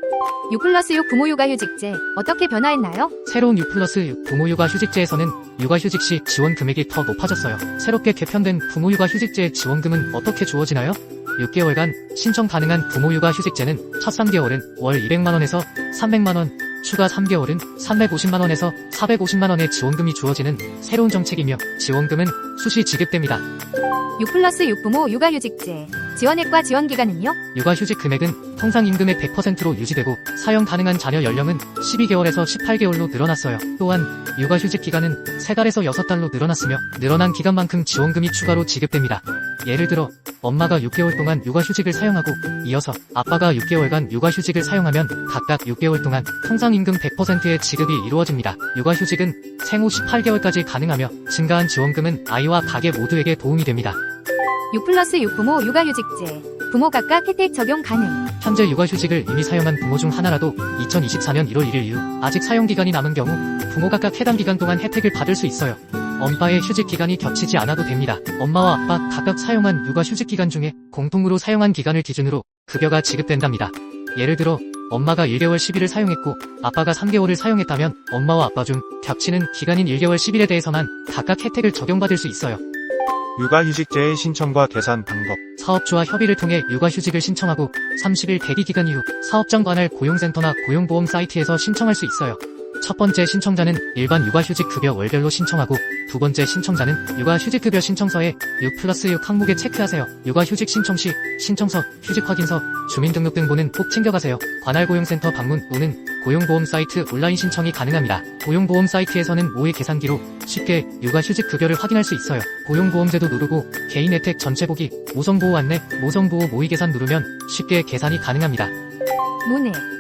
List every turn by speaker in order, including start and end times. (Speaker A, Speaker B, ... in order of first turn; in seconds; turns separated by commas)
Speaker A: 0.5-3.1, Speaker B: 3.2-23.4, Speaker A: 24.2-27.4, Speaker B: 27.5-54.0, Speaker A: 54.7-58.3, Speaker B: 58.4-82.6, Speaker C: 83.3-85.4, Speaker B: 85.6-118.7, Speaker A: 119.4-119.9